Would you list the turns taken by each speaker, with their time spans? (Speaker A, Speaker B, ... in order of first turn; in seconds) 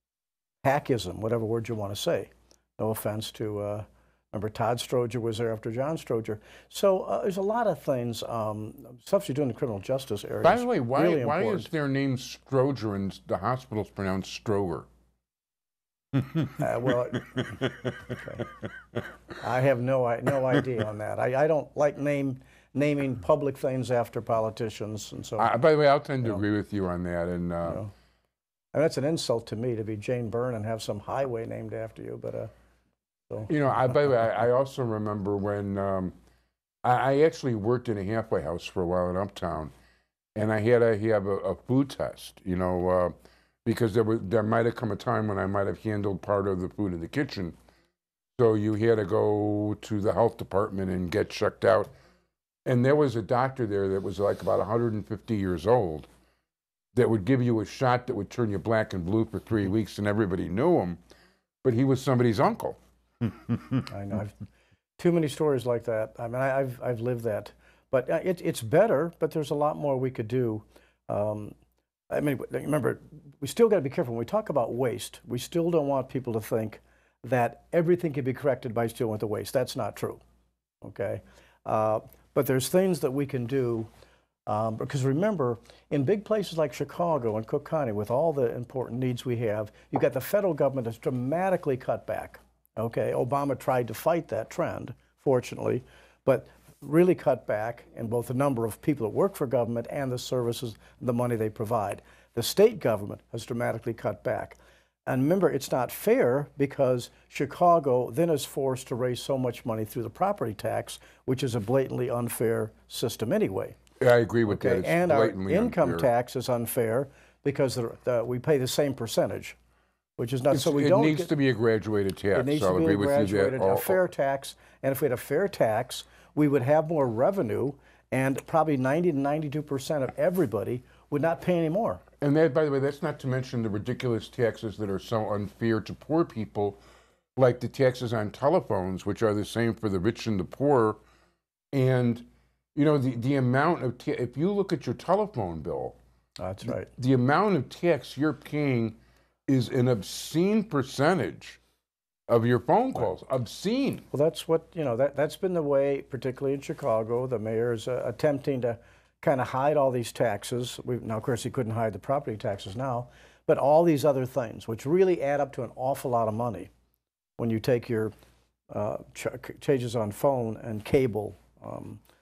Speaker A: 0.6-11.7, 16.6-18.4, 19.4-25.5, 27.6-27.9, 28.7-32.5, 63.9-64.4, 65.0-71.6, 72.1-80.2, 80.8-83.9, 84.5-113.8, 114.5-119.6, 120.2-121.3, 122.3-132.0, 146.4-146.9, 154.1-166.7, 167.4-168.1, 168.7-172.0
Speaker B: 10.4-14.9, 16.1-16.6, 17.3-18.1, 25.4-27.8, 33.5-36.1, 36.8-39.7, 40.4-43.1, 43.6-47.6, 48.4-51.9, 52.7-56.1, 56.9-61.0, 61.6-63.8, 114.0-116.1, 120.5-124.0, 132.2-136.8, 137.4-141.0, 141.7-146.0, 146.7-151.6, 152.3-154.1